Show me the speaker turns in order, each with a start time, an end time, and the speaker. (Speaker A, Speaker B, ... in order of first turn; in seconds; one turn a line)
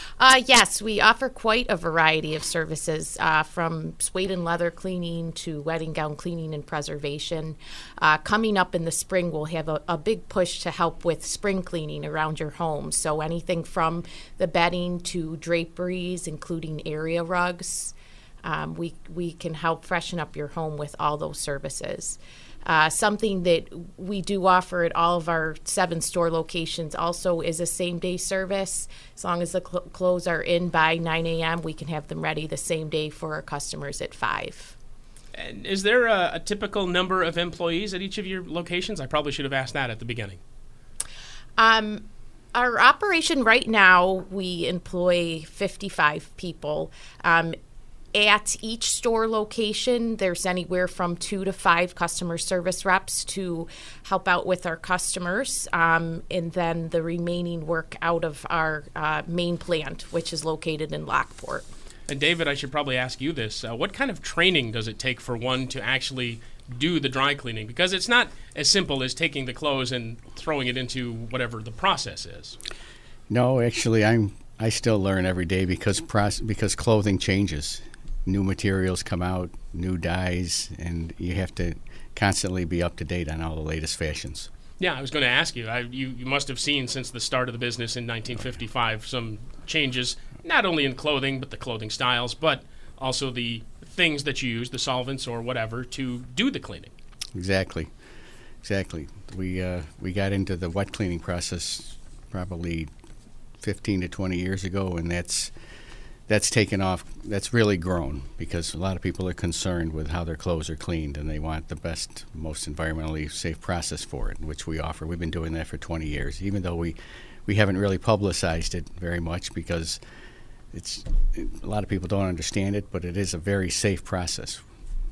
Speaker A: 0.2-34.7
Speaker B: 35.3-40.4
Speaker A: 41.6-47.5
Speaker A: 48.1-61.7
Speaker B: 62.1-72.6
Speaker C: 73.3-84.5
Speaker B: 84.8-96.9
Speaker C: 97.3-97.9
Speaker C: 98.6-102.9
Speaker C: 103.6-105.5
Speaker C: 106.3-120.0
Speaker C: 120.7-124.6